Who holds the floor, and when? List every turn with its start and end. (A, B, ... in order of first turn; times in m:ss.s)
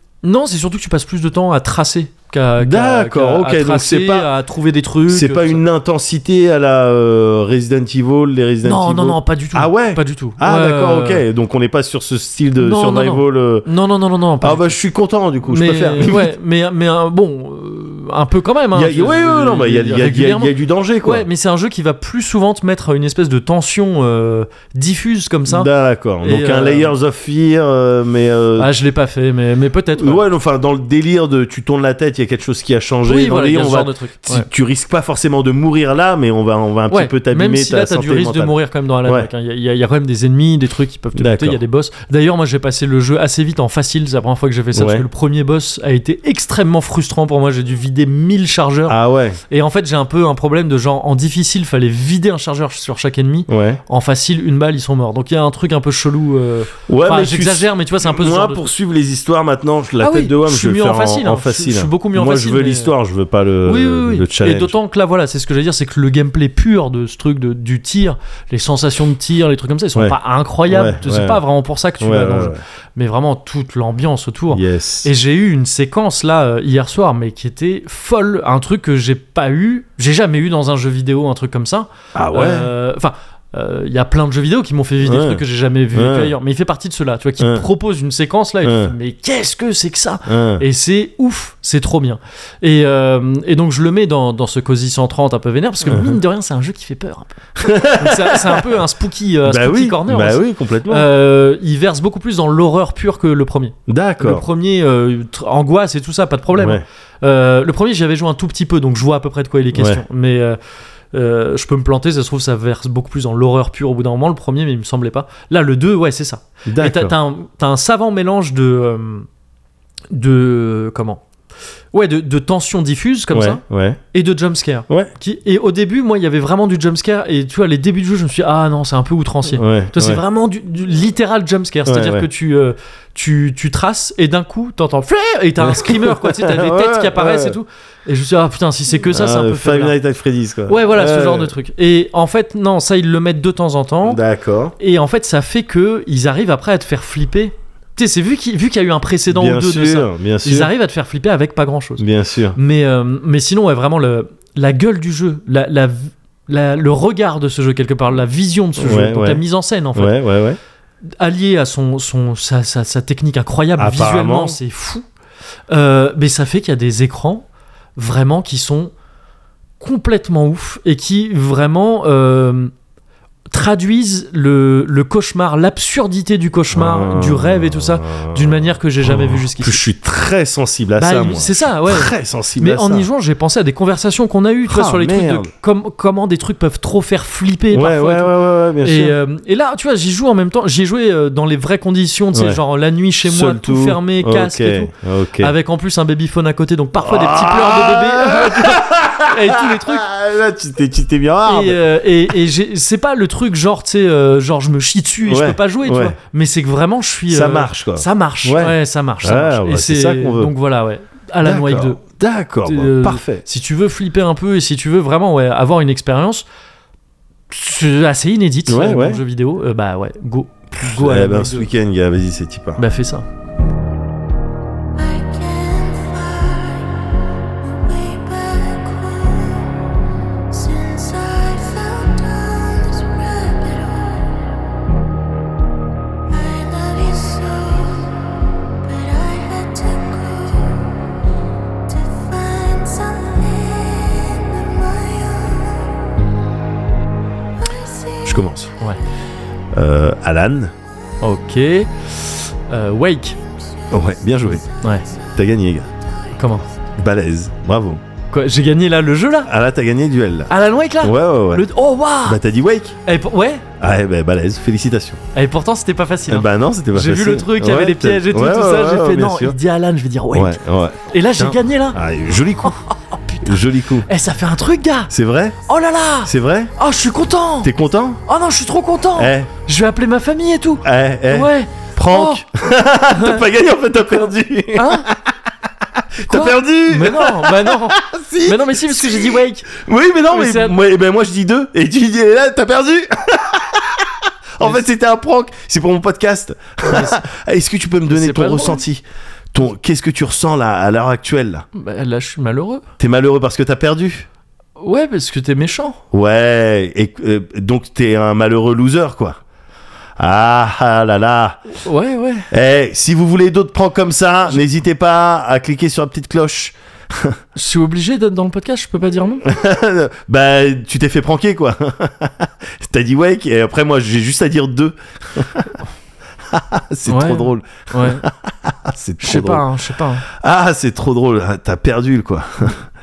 0:00.2-0:05.6 A
0:02.6-0:04.3 B
0:05.1-0:13.7 B
0:08.6-0:11.2 A
0:12.6-0:14.8 A
0:14.4-0:16.3 B
0:15.5-0:25.7 A
0:18.7-0:21.3 B
0:25.5-0:28.7 B
0:26.2-0:26.9 A
0:28.6-0:30.2 A
0:30.0-0:38.5 B
0:33.1-0:34.5 A
0:36.9-0:49.0 A
0:41.2-0:41.6 B
0:44.7-0:45.1 B
0:48.9-0:49.4 B
0:49.5-0:58.6 A
0:53.5-0:53.8 B
0:56.9-1:04.8 B
1:00.0-1:02.9 A
1:03.6-1:50.6 A
1:10.7-1:11.4 B
1:12.0-1:12.6 B
1:14.5-1:15.1 B
1:22.2-1:22.7 B
1:25.0-1:26.3 B
1:27.4-1:27.7 B
1:28.6-1:28.9 B
1:30.3-1:30.6 B
1:35.9-1:36.2 B
1:37.6-1:38.8 B
1:39.4-1:41.1 B
1:43.9-1:44.5 B
1:46.5-1:46.8 B
1:49.7-1:50.0 B
1:51.1-1:59.3 A
1:56.7-1:57.2 B
2:00.1-2:01.2 A
2:01.9-2:03.6 A
2:03.3-2:04.0 B
2:04.1-2:20.0 A
2:09.5-2:10.2 B
2:11.9-2:12.3 B
2:15.6-2:17.6 B
2:19.1-2:21.5 B
2:20.7-2:24.2 A
2:24.0-2:24.8 B
2:24.8-2:32.0 A
2:29.3-2:30.7 B
2:32.0-2:32.6 B
2:32.6-2:40.2 A
2:38.8-2:39.4 B
2:40.0-2:40.6 B
2:41.2-2:45.0 A
2:43.8-2:44.6 B
2:45.7-2:48.9 A
2:49.8-2:52.7 A
2:53.5-2:59.9 A
2:56.7-3:03.1 B
3:01.0-3:20.1 A
3:04.7-3:05.5 B
3:07.7-3:09.2 B
3:12.3-3:12.6 B
3:13.2-3:15.5 B
3:17.0-3:21.8 B
3:21.5-3:32.0 A
3:25.2-3:26.2 B
3:27.3-3:30.5 B
3:31.4-3:33.4 B
3:32.6-3:36.4 A
3:37.5-3:41.7 A
3:38.7-3:39.2 B
3:40.8-3:42.8 B
3:42.8-3:43.3 A
3:45.0-3:47.0 C
3:47.6-3:49.8 C
3:50.5-3:54.6 C
3:56.3-4:01.2 C
4:01.9-4:06.0 C
4:07.6-4:08.5 C
4:08.2-4:08.7 B
4:09.7-4:10.7 B
4:11.2-4:13.4 A
4:13.6-4:15.3 C
4:13.9-4:14.6 B
4:15.4-4:15.9 B
4:16.1-4:16.4 C
4:16.4-4:16.6 A
4:17.0-4:18.0 B
4:18.3-4:19.5 A
4:19.4-4:21.7 B
4:20.5-4:22.4 A
4:22.2-4:23.0 B
4:23.0-4:23.6 A
4:23.8-4:25.2 B
4:25.3-4:30.6 A
4:26.3-4:29.6 B
4:30.3-4:32.8 B
4:31.1-4:32.0 A
4:32.6-4:35.1 A
4:33.4-4:34.1 B
4:35.1-4:35.6 B
4:35.7-4:37.7 A
4:36.2-4:36.7 B
4:37.6-4:38.2 B
4:38.3-4:42.4 A
4:39.2-4:39.5 B
4:40.8-4:45.2 B
4:43.1-4:43.4 A
4:44.7-4:45.1 A
4:46.2-5:01.7 B
4:46.2-4:49.7 A
4:50.3-4:50.8 A
4:56.8-4:57.2 A
4:58.1-4:58.8 A
5:01.7-5:02.8 A
5:03.0-5:04.3 B
5:04.8-5:06.0 A
5:06.1-5:09.4 B
5:10.2-5:11.6 B
5:11.8-5:12.5 A
5:12.5-5:17.4 B
5:17.6-5:19.4 A
5:19.4-5:25.7 B
5:26.5-5:29.7 B
5:27.1-5:28.2 A
5:29.2-5:30.2 A
5:30.2-5:32.8 B